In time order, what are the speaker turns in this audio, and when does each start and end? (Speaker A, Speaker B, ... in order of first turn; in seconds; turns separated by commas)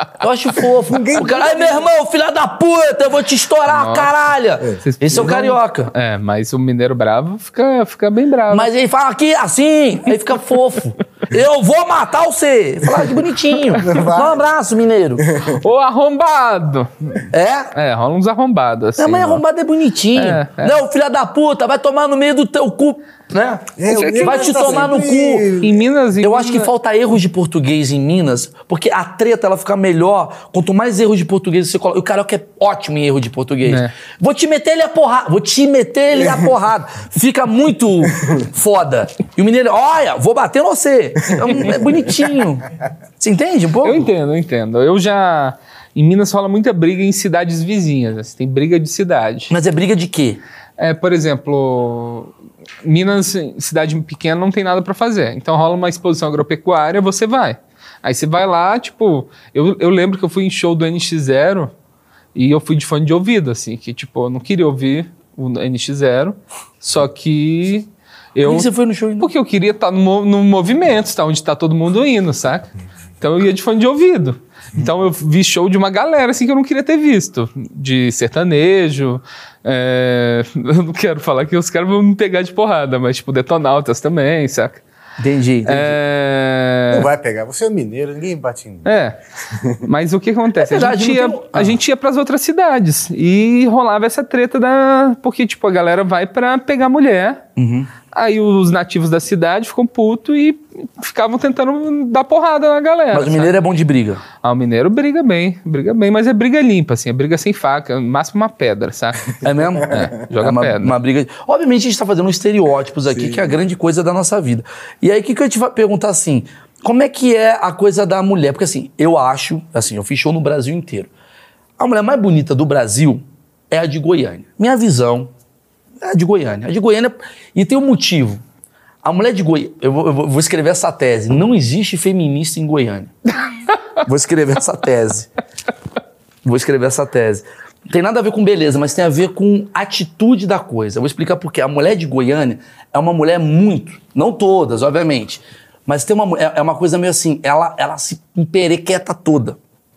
Speaker A: 0.2-5.9, Speaker B: 0.9-1.9, Speaker C: 3.7-4.2, Speaker C: 4.8-8.7, Speaker A: 8.5-15.3, Speaker B: 13.7-14.4, Speaker B: 15.3-15.6, Speaker C: 15.4-19.4, Speaker A: 17.3-17.7, Speaker A: 19.0-25.5, Speaker C: 20.1-20.8, Speaker B: 23.7-25.9, Speaker C: 23.9-24.9, Speaker C: 25.6-26.7, Speaker A: 26.2-42.7, Speaker C: 33.6-33.9, Speaker A: 43.2-44.1, Speaker C: 43.8-49.5, Speaker A: 49.5-50.4, Speaker C: 50.8-61.7, Speaker C: 62.4-68.7, Speaker A: 68.4-69.3, Speaker C: 69.2-84.8, Speaker A: 85.2-86.0, Speaker C: 85.7-87.1, Speaker B: 86.9-88.9, Speaker C: 88.8-89.2, Speaker B: 89.5-89.8, Speaker C: 89.7-97.4, Speaker A: 90.6-91.8, Speaker A: 97.6-97.9, Speaker C: 98.1-103.5, Speaker A: 103.1-104.2, Speaker C: 104.4-111.0, Speaker A: 109.4-121.1, Speaker A: 121.8-125.3, Speaker A: 126.0-128.4, Speaker A: 129.0-133.1, Speaker A: 134.0-135.3, Speaker A: 136.4-149.6